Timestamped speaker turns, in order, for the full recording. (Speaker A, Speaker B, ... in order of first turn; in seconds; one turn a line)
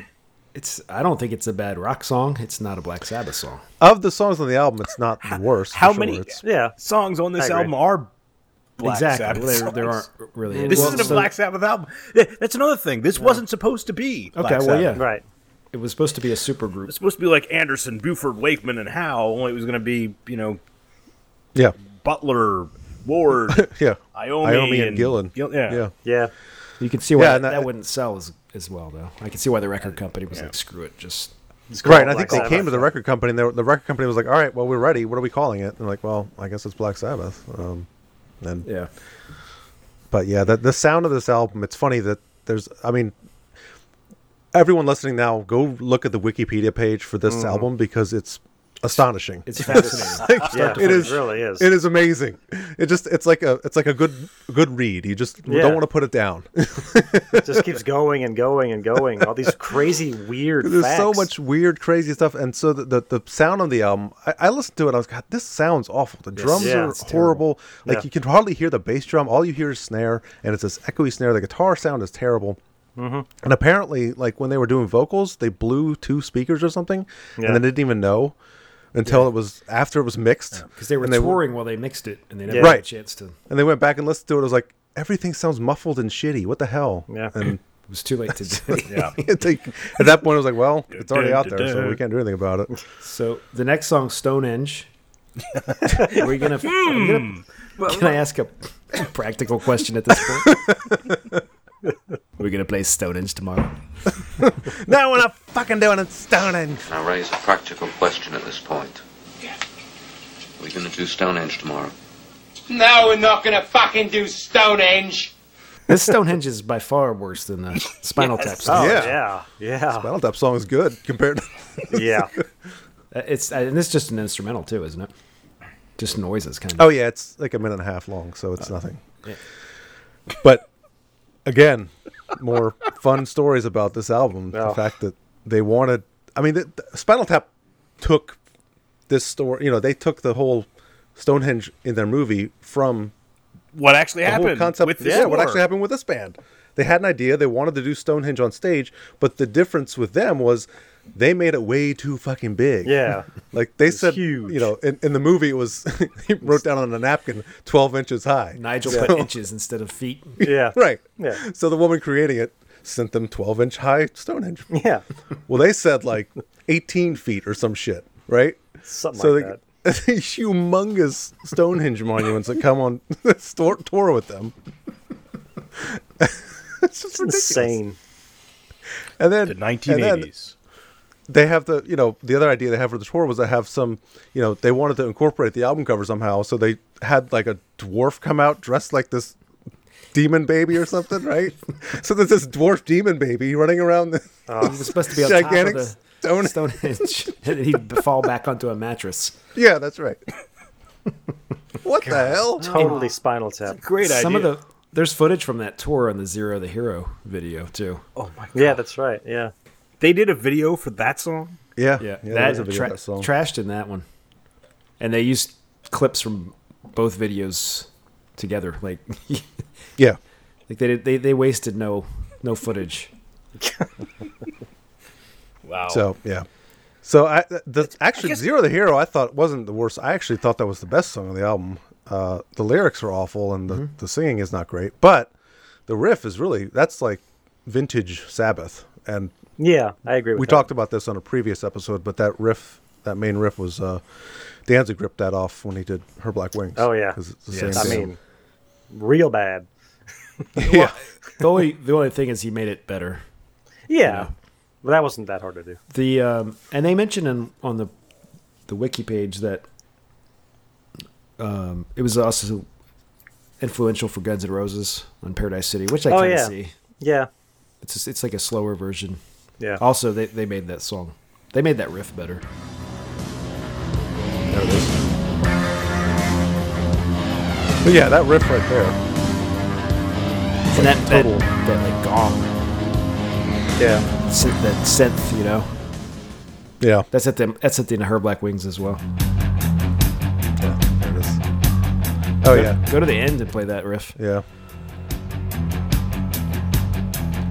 Speaker A: 0.5-3.6
Speaker B: 3.8-6.4
Speaker C: 5.3-8.1
Speaker D: 6.4-6.8
Speaker D: 7.4-7.7
Speaker C: 8.8-10.1
Speaker A: 8.8-11.3
Speaker D: 10.6-11.2
Speaker C: 10.7-15.0
Speaker A: 14.4-15.0
Speaker D: 15.0-15.2
Speaker A: 15.7-16.9
Speaker C: 16.9-20.6
Speaker C: 22.0-25.8
Speaker B: 23.5-25.9
Speaker D: 26.1-26.3
Speaker A: 26.8-31.3
Speaker B: 27.1-27.7
Speaker D: 31.7-32.9
Speaker B: 31.8-37.9
Speaker A: 32.3-32.8
Speaker B: 38.4-38.7
Speaker A: 38.6-38.9
Speaker B: 40.1-43.1
Speaker B: 44.5-57.8
Speaker D: 47.3-47.7
Speaker A: 49.5-51.2
Speaker D: 49.7-51.7
Speaker D: 55.5-55.8
Speaker D: 57.4-61.3
Speaker B: 60.6-72.6
Speaker A: 66.3-67.4
Speaker D: 66.5-67.0
Speaker D: 73.0-73.3
Speaker B: 73.4-78.4
Speaker B: 78.9-81.4
Speaker A: 80.8-83.4
Speaker D: 82.5-82.8
Speaker B: 82.6-82.9
Speaker B: 83.5-87.6
Speaker A: 87.9-89.2
Speaker B: 88.7-92.7
Speaker C: 88.9-89.2
Speaker C: 90.9-92.0
Speaker A: 93.0-94.9
Speaker A: 96.1-100.6
Speaker C: 96.6-98.2
Speaker B: 100.5-101.3
Speaker A: 102.4-103.7
Speaker B: 104.4-106.9
Speaker E: 106.9-109.0
Speaker E: 110.6-111.9
Speaker F: 112.7-115.1
Speaker A: 115.9-119.1
Speaker D: 118.6-120.1
Speaker B: 118.7-119.2
Speaker B: 119.9-122.3
Speaker D: 121.9-122.3
Speaker A: 123.1-125.1
Speaker A: 126.0-126.9
Speaker B: 126.8-129.0
Speaker B: 130.4-130.7
Speaker B: 131.5-137.5
Speaker D: 134.5-134.8
Speaker B: 138.0-138.4
Speaker B: 139.1-143.1
Speaker C: 143.8-145.6
Speaker B: 144.3-159.3
Speaker D: 145.0-145.3
Speaker D: 152.8-153.3
Speaker D: 153.9-154.7
Speaker A: 158.6-160.4
Speaker B: 160.4-164.7
Speaker D: 160.4-161.4
Speaker D: 164.7-165.0
Speaker B: 165.5-168.6
Speaker D: 168.9-169.6
Speaker B: 169.1-174.5
Speaker B: 175.8-177.8
Speaker D: 177.2-178.0
Speaker B: 179.2-180.3
Speaker C: 179.5-180.5
Speaker B: 181.3-189.4
Speaker B: 190.1-197.1
Speaker D: 194.5-194.9
Speaker A: 194.6-199.3
Speaker B: 199.6-200.2
Speaker B: 201.8-202.9
Speaker A: 202.6-203.0
Speaker D: 202.6-203.8
Speaker C: 202.6-203.0
Speaker C: 203.7-204.6
Speaker A: 204.0-208.0
Speaker C: 208.2-208.8
Speaker D: 208.6-209.5
Speaker C: 210.0-211.6
Speaker B: 211.8-213.3
Speaker A: 212.0-214.1
Speaker A: 215.0-219.5
Speaker A: 220.7-223.1
Speaker D: 223.6-223.9
Speaker C: 225.7-226.1
Speaker B: 225.9-226.5
Speaker B: 227.0-235.3
Speaker C: 228.2-228.5
Speaker B: 235.9-239.3
Speaker D: 239.6-240.7
Speaker B: 240.4-244.0
Speaker B: 244.7-248.1
Speaker D: 246.8-247.2
Speaker A: 247.5-248.1
Speaker D: 247.7-248.2
Speaker D: 248.9-249.7
Speaker B: 250.6-250.9
Speaker A: 250.7-253.2
Speaker D: 253.9-254.3
Speaker A: 254.1-254.3
Speaker D: 254.8-255.8
Speaker A: 255.9-257.9
Speaker A: 258.7-259.6
Speaker A: 261.4-262.7
Speaker A: 263.6-266.7
Speaker D: 266.1-267.3
Speaker A: 267.8-269.2
Speaker A: 269.8-272.4
Speaker B: 274.5-275.0
Speaker B: 277.8-279.0
Speaker A: 280.7-282.5
Speaker B: 280.7-281.4
Speaker B: 283.8-284.1
Speaker A: 284.3-285.7
Speaker B: 286.8-287.1
Speaker A: 287.1-289.0
Speaker B: 290.6-291.4
Speaker B: 292.4-292.8
Speaker A: 292.5-294.2
Speaker B: 294.2-294.4